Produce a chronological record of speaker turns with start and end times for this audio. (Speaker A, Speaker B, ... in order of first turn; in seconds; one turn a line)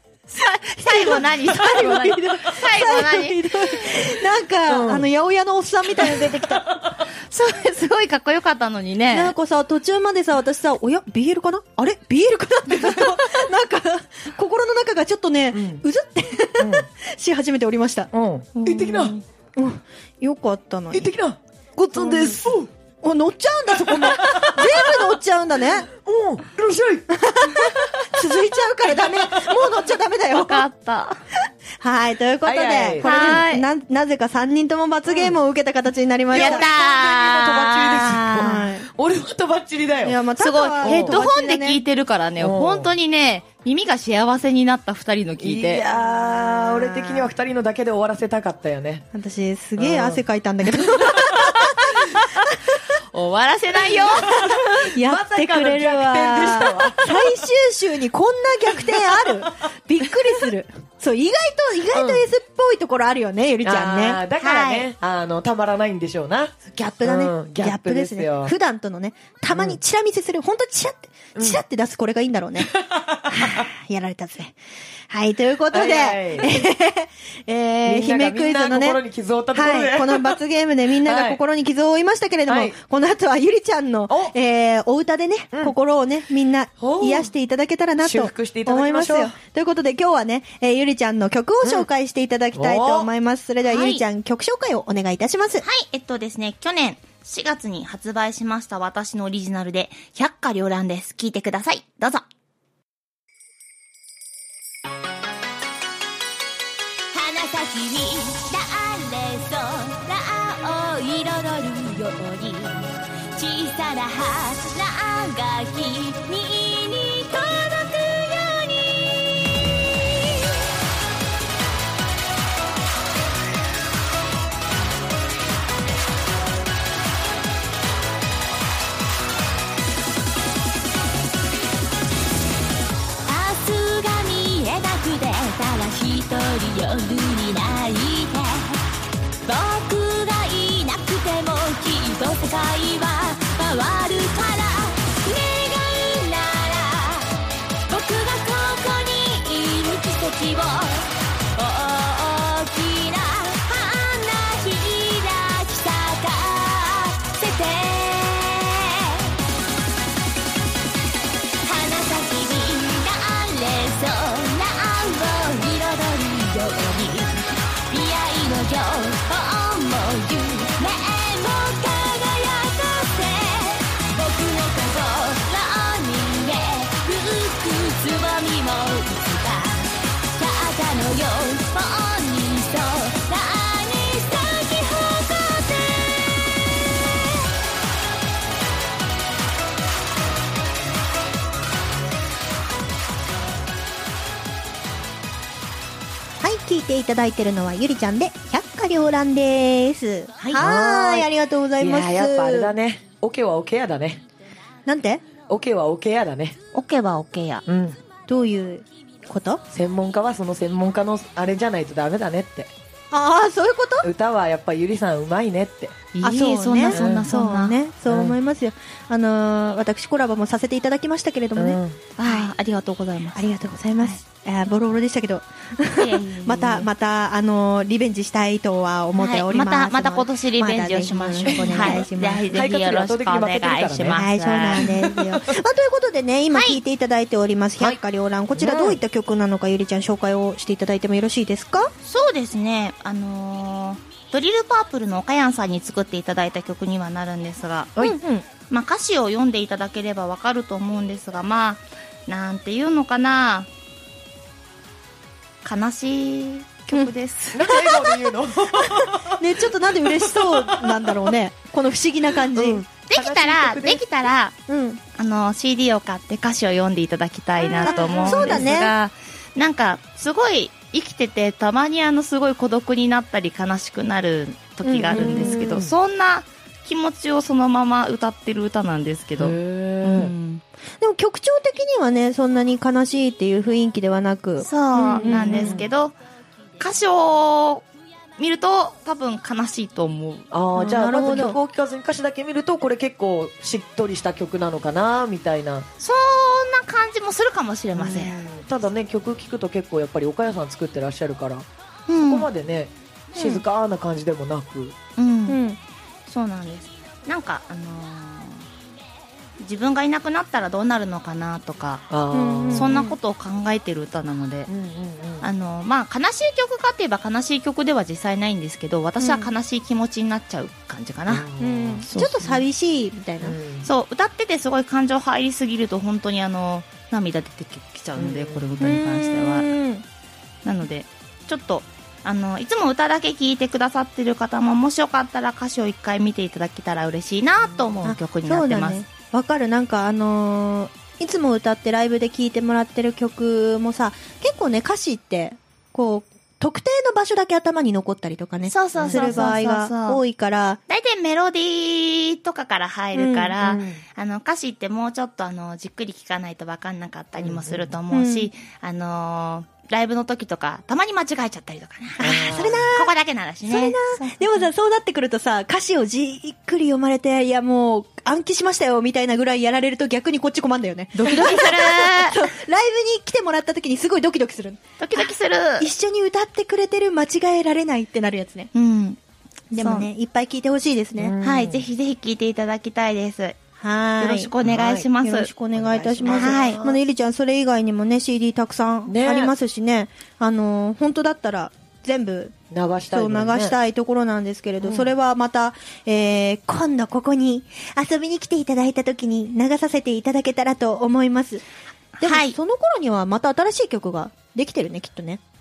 Speaker A: 0.3-3.9
Speaker B: 0.8-6.7
Speaker C: 4.7-5.1
Speaker C: 6.0-7.0
Speaker A: 7.3-9.3
Speaker B: 9.1-18.1
Speaker C: 15.5-15.8
Speaker C: 16.6-16.9
Speaker C: 18.1-19.1
Speaker A: 18.6-19.2
Speaker B: 19.6-21.1
Speaker C: 20.9-22.7
Speaker B: 21.9-22.4
Speaker B: 23.0-25.9
Speaker C: 23.8-25.0
Speaker C: 25.9-27.1
Speaker B: 27.1-30.7
Speaker C: 29.0-29.7
Speaker A: 30.3-31.2
Speaker B: 31.8-36.7
Speaker C: 32.5-33.4
Speaker A: 33.0-33.7
Speaker C: 35.1-35.4
Speaker C: 36.3-40.2
Speaker A: 36.3-38.6
Speaker B: 38.3-38.9
Speaker B: 40.0-41.8
Speaker A: 40.4-45.9
Speaker C: 40.8-41.2
Speaker C: 42.4-42.9
Speaker C: 45.4-49.1
Speaker B: 49.1-52.8
Speaker C: 49.8-50.2
Speaker C: 50.7-52.0
Speaker A: 53.1-54.4
Speaker C: 53.8-57.2
Speaker B: 54.3-64.2
Speaker C: 58.9-59.5
Speaker C: 61.9-62.2
Speaker C: 63.6-68.5
Speaker A: 64.4-64.9
Speaker B: 66.7-72.7
Speaker C: 69.5-69.8
Speaker C: 72.7-73.7
Speaker B: 73.3-74.6
Speaker B: 75.1-79.0
Speaker C: 75.7-76.5
Speaker C: 77.8-80.4
Speaker B: 79.5-95.7
Speaker C: 81.0-81.4
Speaker C: 82.5-82.8
Speaker C: 86.8-87.3
Speaker C: 88.0-89.4
Speaker C: 92.5-93.1
Speaker A: 93.7-94.0
Speaker A: 95.6-102.2
Speaker D: 107.1-119.0
Speaker D: 133.2-138.9
Speaker D: 139.4-159.3
Speaker D: 161.6-186.7
Speaker B: 196.4-202.7
Speaker C: 200.6-204.2
Speaker B: 204.9-205.2
Speaker C: 205.5-206.6
Speaker A: 206.7-207.6
Speaker C: 207.7-208.0
Speaker B: 208.3-209.6
Speaker C: 209.7-212.7
Speaker B: 213.1-214.1
Speaker C: 214.0-216.0
Speaker A: 216.1-217.8
Speaker B: 216.2-222.4
Speaker C: 216.9-217.3
Speaker C: 218.1-218.4
Speaker C: 221.6-222.0
Speaker A: 222.2-223.4
Speaker B: 223.3-232.5
Speaker A: 226.0-226.9
Speaker A: 229.2-234.9
Speaker C: 231.7-234.2
Speaker B: 234.2-241.9
Speaker C: 234.8-235.5
Speaker A: 236.5-236.8
Speaker C: 238.5-239.0
Speaker A: 242.0-248.0
Speaker B: 248.0-248.5
Speaker A: 248.7-253.7
Speaker A: 255.6-257.6
Speaker C: 257.5-261.3
Speaker B: 257.7-258.2
Speaker B: 258.8-262.8
Speaker C: 262.5-264.1
Speaker A: 263.1-264.6
Speaker B: 264.7-265.0
Speaker A: 265.1-280.6
Speaker C: 267.7-268.7
Speaker B: 267.8-268.9
Speaker B: 274.8-275.7
Speaker C: 275.1-275.9
Speaker C: 279.4-280.3
Speaker B: 281.0-285.8
Speaker A: 284.6-286.2
Speaker C: 285.0-285.9
Speaker A: 286.8-287.9
Speaker A: 288.4-290.5
Speaker C: 290.5-295.9
Speaker B: 290.8-291.6
Speaker A: 296.0-298.4
Speaker C: 297.9-301.7
Speaker A: 302.1-302.5
Speaker C: 302.2-305.0
Speaker A: 303.4-303.6
Speaker A: 305.2-305.6
Speaker B: 305.5-305.8
Speaker A: 306.3-308.7
Speaker A: 309.6-312.0
Speaker C: 312.1-313.0
Speaker B: 312.3-313.2
Speaker A: 312.7-314.7
Speaker C: 314.7-315.5
Speaker A: 315.4-321.5
Speaker B: 319.2-319.5
Speaker C: 321.3-322.1
Speaker B: 321.6-323.6
Speaker A: 322.1-322.6
Speaker C: 323.4-323.9
Speaker A: 323.8-329.7
Speaker C: 328.2-328.6
Speaker B: 328.8-330.0
Speaker A: 330.6-339.0
Speaker C: 337.6-338.1
Speaker B: 338.0-350.8
Speaker A: 348.7-350.2
Speaker C: 348.9-349.6
Speaker A: 350.9-364.7
Speaker B: 353.1-353.6
Speaker C: 353.6-354.0
Speaker C: 357.4-357.9
Speaker B: 358.1-358.5
Speaker B: 362.2-363.1
Speaker C: 362.2-362.9
Speaker B: 363.7-378.7
Speaker A: 371.2-372.5
Speaker A: 375.0-375.9
Speaker A: 378.7-379.2
Speaker B: 379.7-381.3
Speaker A: 379.8-380.1
Speaker C: 381.2-381.9
Speaker A: 381.4-383.6
Speaker B: 383.8-384.5
Speaker A: 384.2-385.5
Speaker C: 384.6-385.1
Speaker B: 385.2-392.6
Speaker C: 385.7-387.0
Speaker A: 386.3-386.8
Speaker C: 389.1-389.5
Speaker C: 392.7-393.8
Speaker B: 393.1-401.6
Speaker C: 394.8-395.1
Speaker B: 402.2-405.4
Speaker A: 402.2-402.6